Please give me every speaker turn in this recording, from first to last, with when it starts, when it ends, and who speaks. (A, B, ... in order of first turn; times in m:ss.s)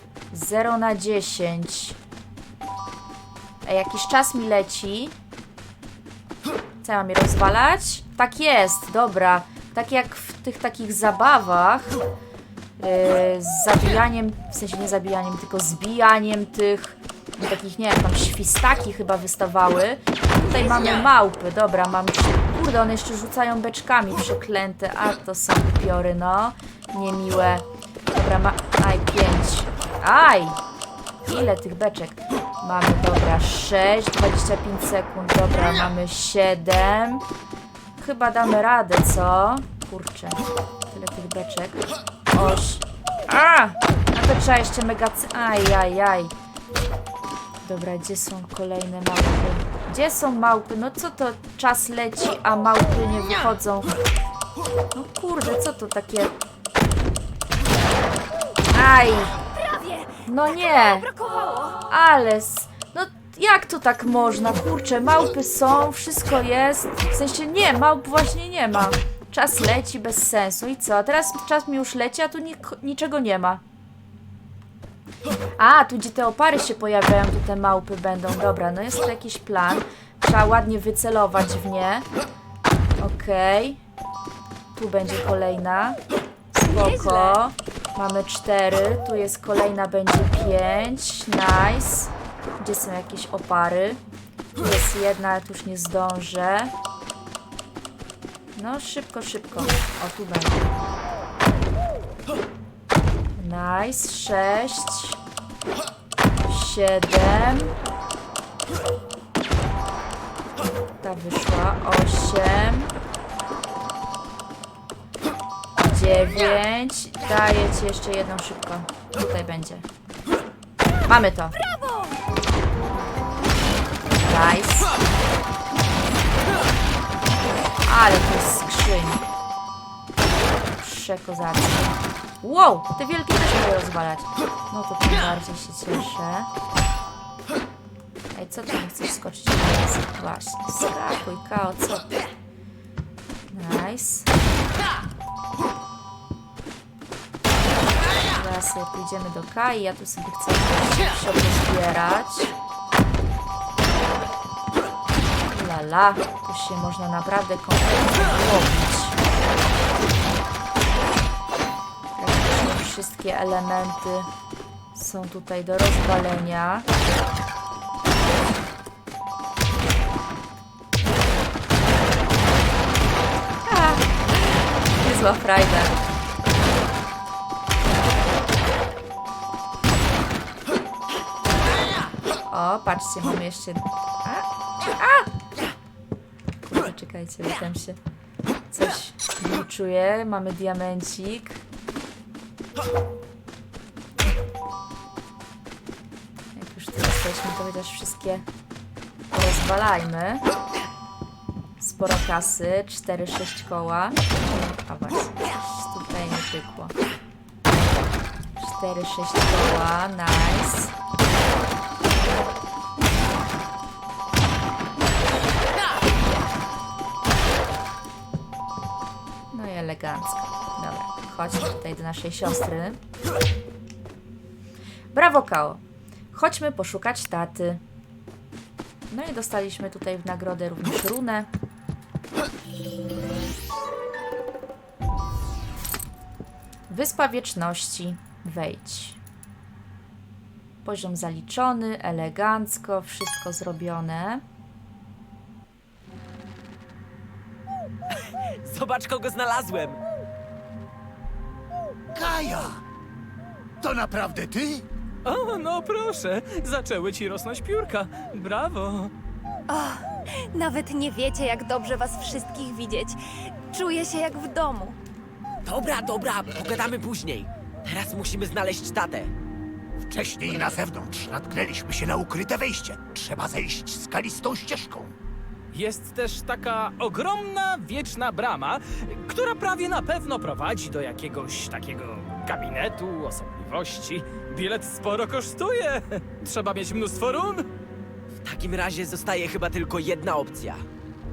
0:00.3-0:02.0 A
0:03.6-0:05.1 A
0:06.8-0:12.0 A
0:12.8-0:30.6 A
0:31.2-0:37.2 A
0:38.0-0:46.3 A
0:47.6-0:54.0 A
0:54.9-0:56.3 A
0:58.7-0:59.4 A
0:59.5-1:01.8 B
1:00.2-1:01.1 A
1:01.9-1:13.6 A
1:15.6-1:22.0 A
1:23.0-1:23.8 A
1:24.7-1:34.0 A
1:26.7-1:27.4 B
1:34.6-1:36.7 A
1:38.5-1:40.7 A
1:43.4-1:45.2 A
1:46.4-1:47.7 A
1:51.0-1:52.9 A
1:55.8-1:59.8 A
2:01.0-2:01.6 A
2:01.8-2:02.1 B
2:04.2-2:04.9 A
2:07.8-2:09.2 A
2:10.7-2:16.5 A
2:18.3-2:22.1 A
2:23.5-2:24.3 A
2:28.3-2:32.5 A
2:35.5-2:39.2 A
2:42.2-2:44.3 A
2:44.9-2:46.9 A
2:53.6-2:56.0 A
3:02.5-3:05.3 A
3:06.6-3:08.0 A
3:08.7-3:11.6 A
3:16.5-3:18.4 A
3:19.3-3:20.4 A
3:21.8-3:27.0 A
3:28.6-3:30.9 A
3:39.5-3:43.0 A
3:45.1-3:47.8 A
3:49.1-3:51.5 A
3:56.9-3:59.2 A
4:00.8-4:04.4 A
4:08.6-4:10.0 C
4:12.1-4:12.8 D
4:13.8-4:14.8 D
4:15.2-4:19.1 E
4:19.7-4:25.0 B
4:25.6-4:29.3 C
4:30.1-4:35.1 D
4:35.7-4:47.7 E
4:48.4-4:50.8 C